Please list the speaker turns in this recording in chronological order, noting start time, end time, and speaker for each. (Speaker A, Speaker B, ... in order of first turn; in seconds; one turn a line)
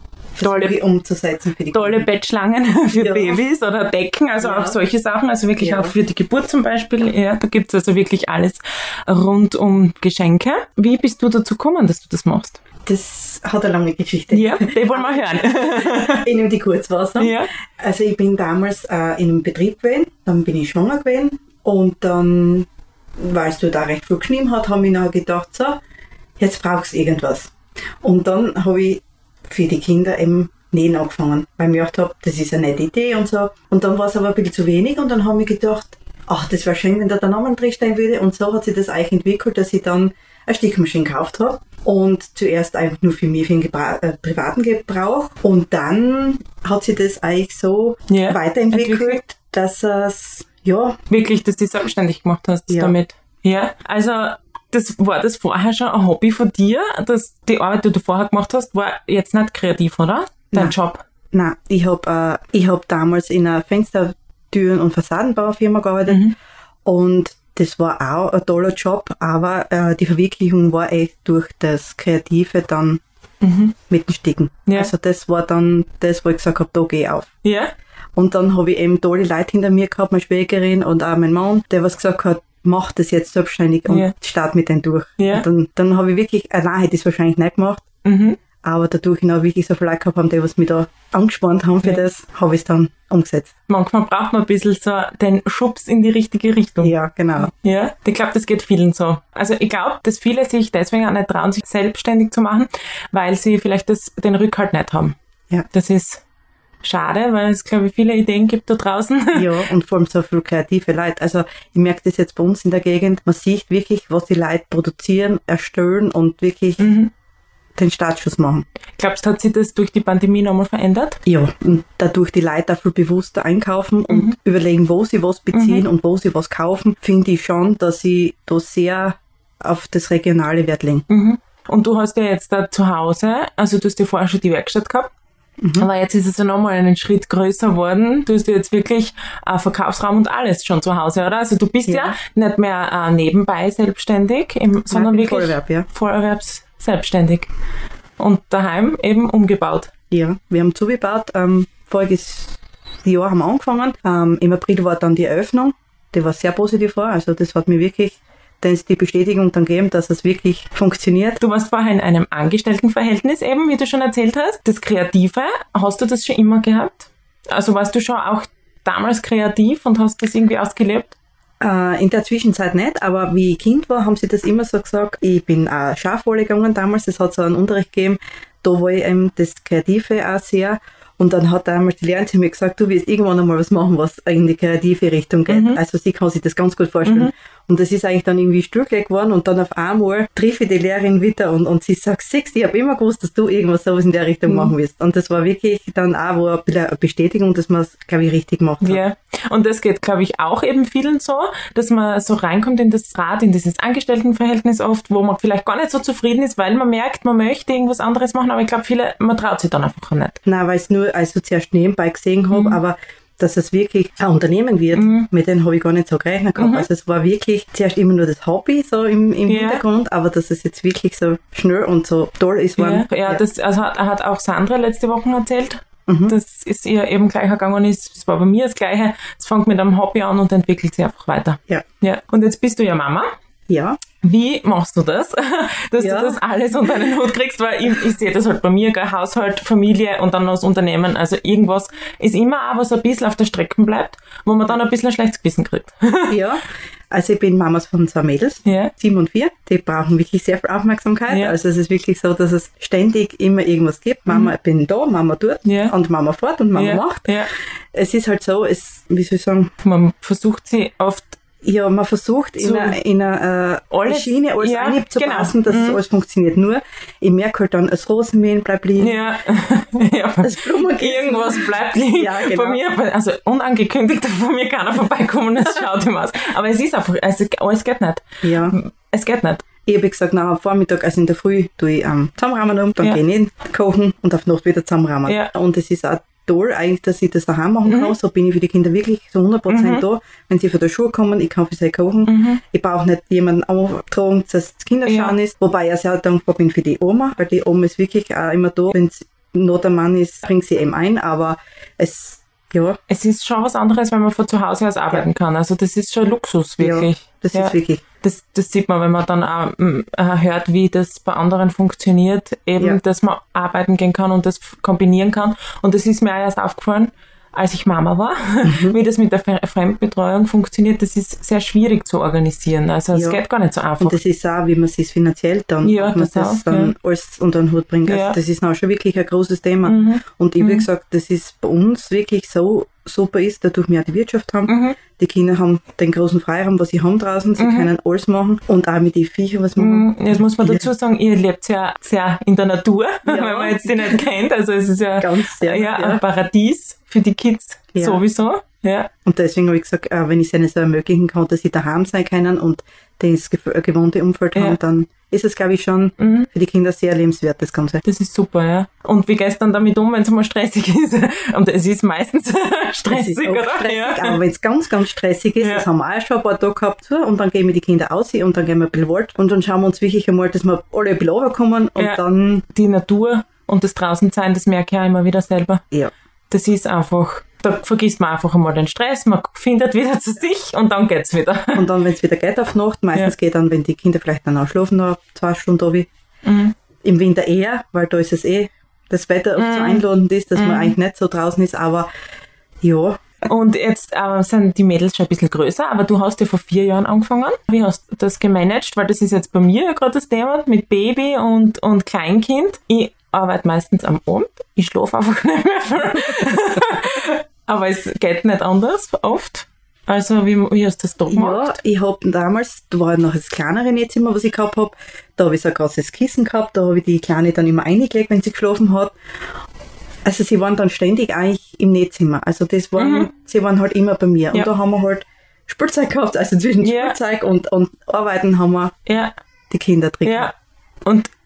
Speaker A: 0.3-2.1
Speaker B: 0.4-0.7
Speaker B: 1.7-12.6
Speaker A: 2.9-3.4
Speaker A: 4.4-4.8
Speaker A: 5.6-6.0
Speaker A: 12.8-22.7
Speaker B: 14.3-16.3
Speaker B: 17.2-17.5
Speaker A: 23.2-25.8
Speaker A: 26.4-51.0
Speaker B: 48.1-49.2
Speaker B: 51.1-61.0
Speaker A: 52.7-52.9
Speaker A: 61.3-66.2
Speaker B: 66.1-66.3
Speaker A: 66.8-73.0
Speaker B: 73.4-73.8
Speaker A: 73.9-77.3
Speaker B: 77.4-77.7
Speaker A: 78.2-87.8
Speaker B: 85.2-85.4
Speaker B: 88.0-88.4
Speaker A: 88.6-93.5
Speaker B: 93.7-105.2
Speaker A: 96.8-97.5
Speaker B: 105.7-106.2
Speaker B: 106.8-109.6
Speaker A: 109.3-116.9
Speaker B: 116.8-117.1
Speaker A: 117.8-118.6
Speaker B: 119.0-121.2
Speaker A: 121.3-131.1
Speaker B: 124.1-124.4
Speaker B: 125.5-125.8
Speaker B: 131.1-135.1
Speaker A: 135.6-135.9
Speaker B: 135.8-147.5
Speaker A: 141.9-142.2
Speaker A: 144.9-145.9
Speaker B: 148.2-149.9
Speaker A: 150.1-161.4
Speaker B: 161.4-171.1
Speaker A: 171.6-199.0
Speaker B: 185.5-185.8
Speaker B: 187.1-187.3
Speaker B: 194.5-194.7
Speaker B: 198.8-210.4
Speaker A: 210.4-223.4
Speaker B: 212.5-212.8
Speaker B: 214.9-215.3
Speaker B: 216.6-216.9
Speaker B: 219.5-219.8
Speaker B: 222.8-233.3
Speaker A: 226.1-226.3
Speaker A: 233.7-234.0
Speaker B: 234.2-246.4
Speaker A: 236.0-236.4
Speaker A: 246.3-257.3
Speaker B: 248.7-248.9
Speaker B: 251.3-251.6
Speaker B: 255.7-255.9
Speaker B: 256.8-257.5
Speaker A: 257.9-259.7
Speaker B: 259.8-261.4
Speaker A: 261.6-269.2
Speaker B: 262.6-263.0
Speaker B: 263.9-266.0
Speaker B: 269.0-279.6
Speaker A: 270.4-272.8
Speaker A: 278.4-278.8
Speaker A: 279.9-303.0
Speaker B: 287.9-288.1
Speaker B: 289.7-290.0
Speaker B: 292.3-292.6
Speaker B: 295.1-295.4
Speaker B: 303.1-324.2
Speaker A: 306.8-308.0
Speaker A: 318.6-319.0
Speaker A: 323.1-323.4
Speaker A: 324.0-340.9
Speaker B: 325.8-326.9
Speaker B: 328.1-328.4
Speaker B: 329.9-330.9
Speaker B: 334.7-335.0
Speaker B: 337.6-337.9
Speaker B: 339.8-349.1
Speaker A: 343.2-344.2
Speaker A: 345.2-346.2
Speaker A: 347.9-348.2
Speaker A: 349.2-358.0
Speaker B: 356.2-356.5
Speaker B: 358.1-364.4
Speaker A: 363.1-372.6
Speaker B: 365.6-365.9
Speaker B: 372.0-375.8
Speaker B: 376.5-381.9
Speaker A: 381.7-386.1
Speaker B: 386.4-386.7
Speaker A: 387.0-392.1
Speaker B: 389.6-391.0
Speaker A: 392.8-393.2
Speaker B: 393.4-411.8
Speaker A: 411.3-419.1
Speaker A: 420.2-428.9
Speaker B: 423.0-423.3
Speaker B: 426.8-427.2
Speaker B: 429.1-429.3
Speaker A: 429.7-430.5
Speaker B: 430.2-430.5
Speaker B: 431.1-431.3